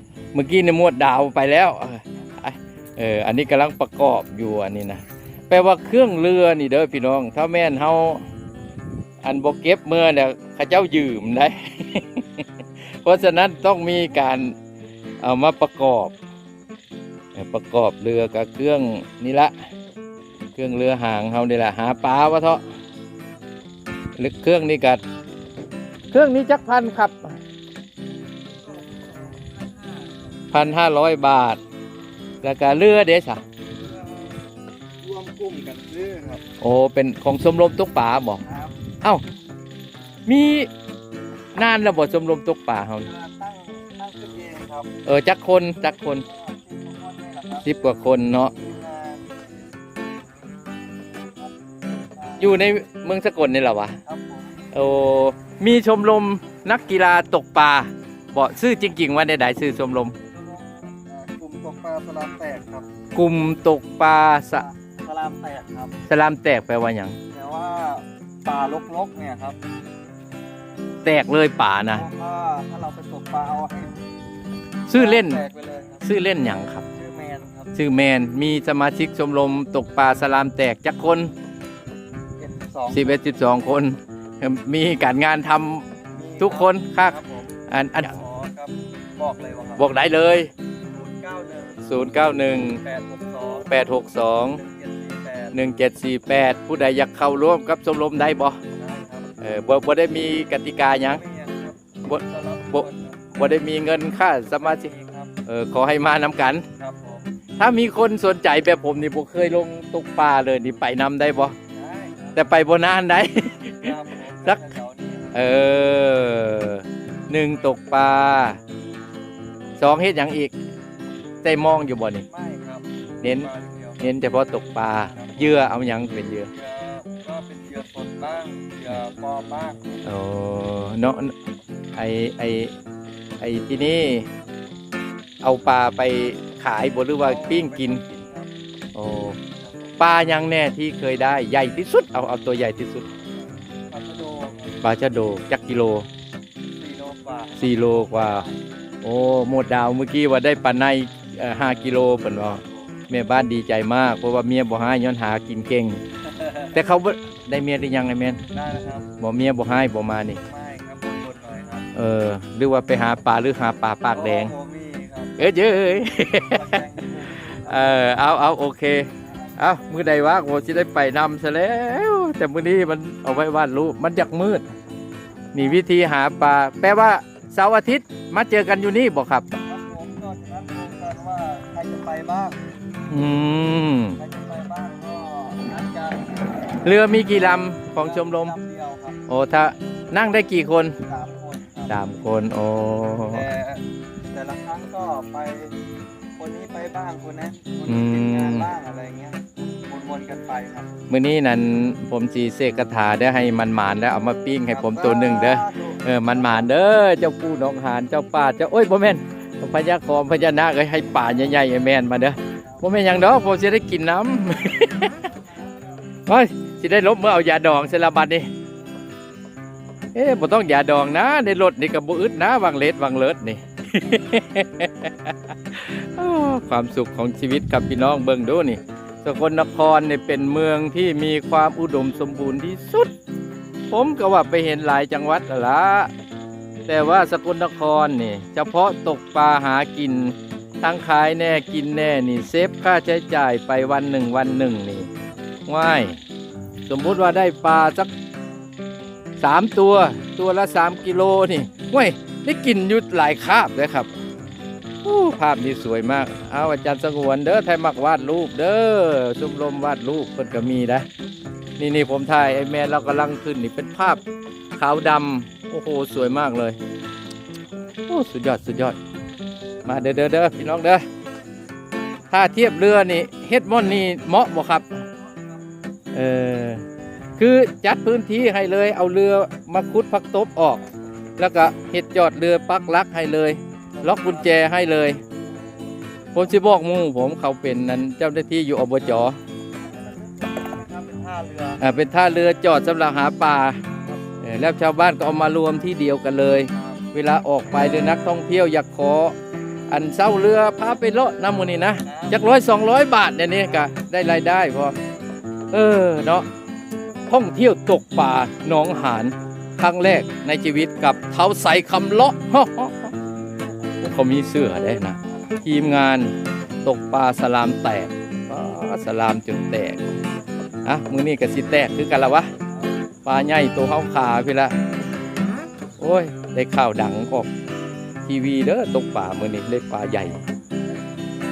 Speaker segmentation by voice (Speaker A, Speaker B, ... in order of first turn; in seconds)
Speaker A: 0.3-8.2, 9.2-12.5, 13.0-14.6, 15.2-16.1, 17.4-19.5, 20.6-22.6, 24.2-25.0, 26.1-27.4, 30.5-31.6, 32.4-33.4, 36.6-38.4, 40.3-40.7, 41.5-43.1, 45.1-46.2, 47.6-48.5, 52.4-54.0, 54.7-60.1, 63.1-64.7, 66.1-67.2, 71.0-72.1, 74.9-75.4, 76.0-76.8, 77.8-81.3, 82.9-85.9, 86.4-88.2, 89.8-90.5, 91.8-92.8, 93.7-94.6, 95.5-98.6, 99.4-101.2, 102.1-104.9, 105.5-106.7, 107.6-111.6, 112.3-114.6, 115.3-118.6, 119.8-120.5, 121.4-122.3, 123.2-123.5, 124.0-126.5, 130.1-131.3, 131.9-132.8, 133.4-134.3, 135.4-138.0, 138.9-139.4, 140.0-143.1, 144.8-146.1, 147.6-148.4, 149.0-156.0, 156.7-158.4, 159.2-160.4, 161.9-164.5, 165.4-166.9, 167.5-174.6, 175.5-179.5, 183.1-184.2, 186.8-188.6, 189.3-191.0, 191.9-193.5, 197.9-198.7, 201.1-215.2, 216.3-218.5, 220.1-233.1, 233.9-236.1, 236.9-245.1, 245.7-246.2, 246.9-248.1, 249.4-254.1, 255.0-261.1, 261.8-264.2, 264.8-266.8, 268.1-269.0, 269.9-271.0, 272.3-275.1, 276.1-276.8, 277.4-280.9, 281.4-285.2, 286.4-289.4, 291.8-293.8, 294.4-299.4, 299.9-305.0, 305.7-306.5, 307.3-313.1, 314.0-316.3, 316.9-320.1, 320.9-322.5, 323.2-324.8, 326.0-327.5, 328.2-330.4
Speaker B: 28.9-29.5, 33.9-34.4, 35.0-36.4, 38.4-38.8, 43.0-44.9, 46.0-47.7, 48.4-49.5, 51.1-52.6, 54.0-54.7, 60.3-62.9, 64.5-66.0, 67.3-69.6, 71.9-74.1, 74.9-76.0, 76.9-77.7, 82.4-83.1, 86.1-89.9, 90.9-91.9, 92.7-93.7, 94.5-95.6, 98.8-99.3, 101.0-103.4, 104.6-105.3, 106.8-107.3, 111.7-112.4, 113.8-115.4, 122.3-124.0, 125.0-125.7, 126.5-130.0, 137.2-138.5, 139.6-140.0, 143.3-144.8, 146.8-148.6, 156.3-156.7, 158.5-159.1, 160.4-161.9, 164.1-165.3, 166.4-168.1, 179.6-182.6, 184.2-186.8, 187.9-189.2, 191.1-191.9, 193.3-195.8, 196.4-200.9, 204.7-206.7, 211.4-211.7, 212.5-213.0, 215.3-215.8, 283.9-284.7, 285.4-286.5, 289.0-289.3, 289.9-291.8, 296.7-297.0, 302.1-302.6